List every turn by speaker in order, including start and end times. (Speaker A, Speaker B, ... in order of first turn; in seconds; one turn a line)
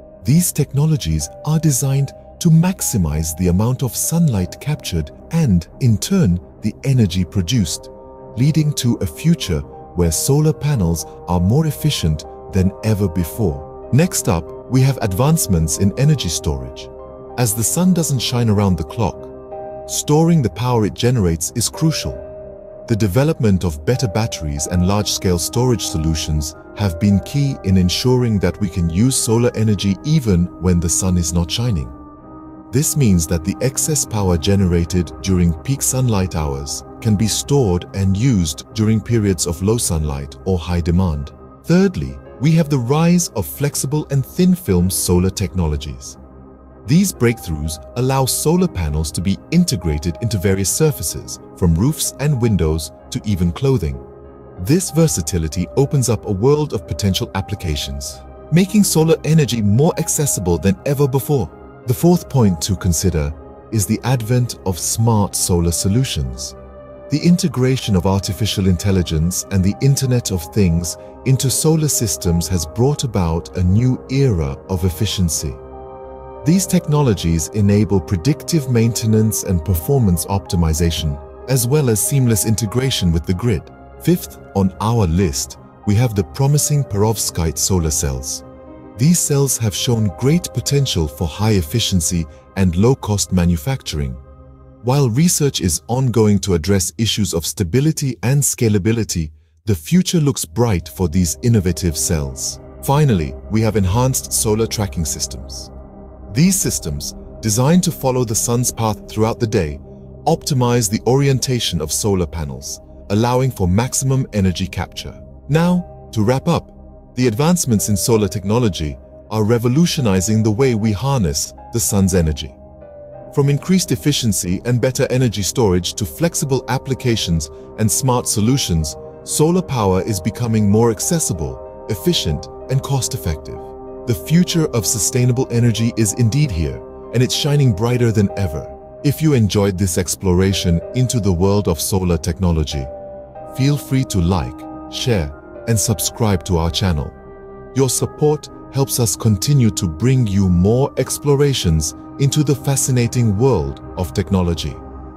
Speaker A: 0.2-19.3
Speaker A: 19.9-22.2
Speaker A: 22.9-31.9
Speaker A: 32.7-46.2
Speaker A: 46.8-54.0
Speaker A: 54.6-66.5
Speaker A: 67.1-75.6
Speaker A: 76.4-88.4
Speaker A: 88.9-94.2
Speaker A: 94.8-105.7
Speaker A: 106.3-122.6
Speaker A: 123.3-142.9
Speaker A: 143.5-147.2
Speaker A: 147.7-154.8